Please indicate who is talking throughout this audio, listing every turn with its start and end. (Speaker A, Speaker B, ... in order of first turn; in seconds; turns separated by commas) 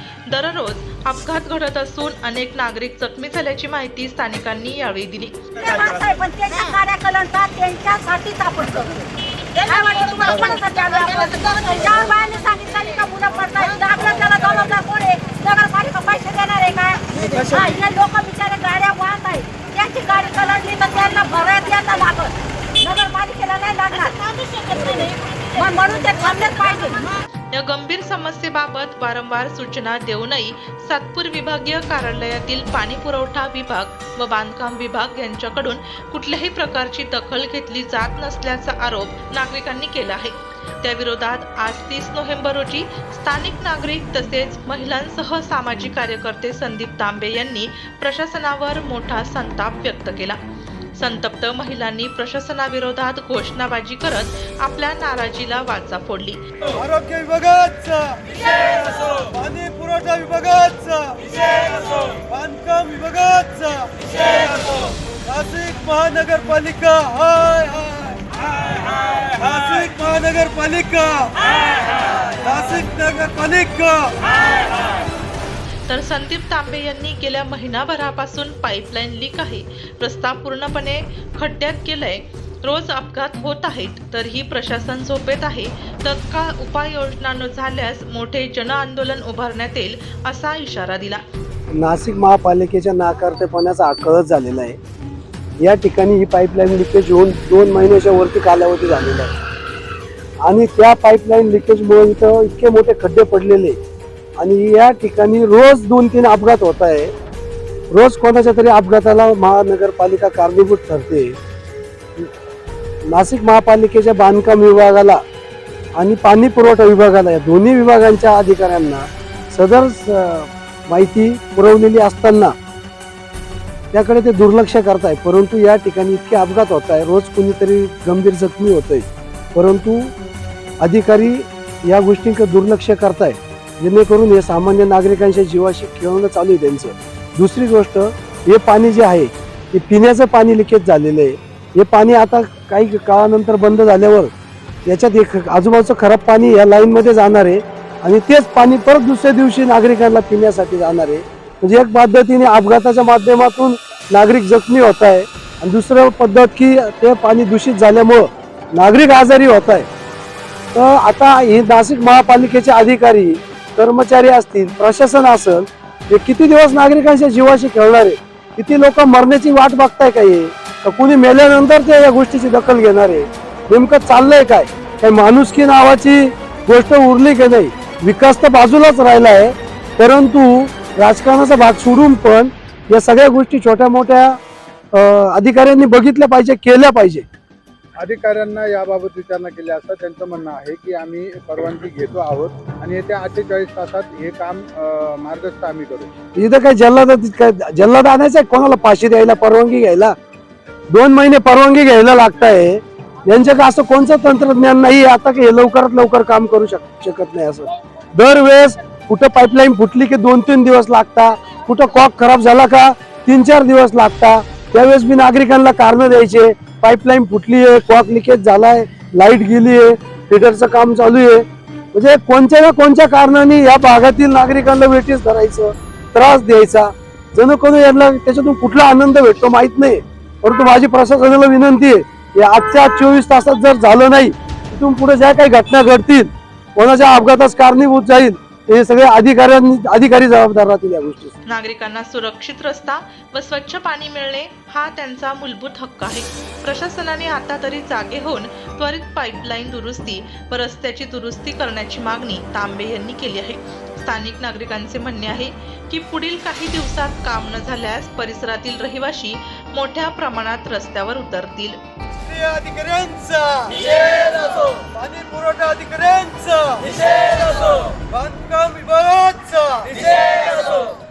Speaker A: 0.3-5.4, Speaker B: 5.5-27.1, Speaker A: 27.5-50.4, Speaker A: 51.0-56.4, Speaker C: 56.8-64.7, Speaker D: 59.9-60.6, Speaker C: 65.2-68.2, Speaker C: 68.9-74.4, Speaker A: 75.9-91.2, Speaker D: 91.7-94.8, Speaker D: 95.6-99.3, Speaker D: 100.4-103.8, Speaker D: 104.4-107.1, Speaker D: 107.9-111.4, Speaker D: 113.1-115.2, Speaker D: 116.0-122.5, Speaker D: 123.9-130.1, Speaker D: 130.8-144.3, Speaker D: 144.8-159.9, Speaker D: 160.7-184.4, Speaker D: 184.9-187.2, Speaker E: 188.0-196.1, Speaker D: 196.3-200.1, Speaker D: 200.9-241.3, Speaker A: 241.4-261.8, Speaker C: 262.3-270.8, Speaker D: 262.3-262.7, Speaker D: 265.3-266.2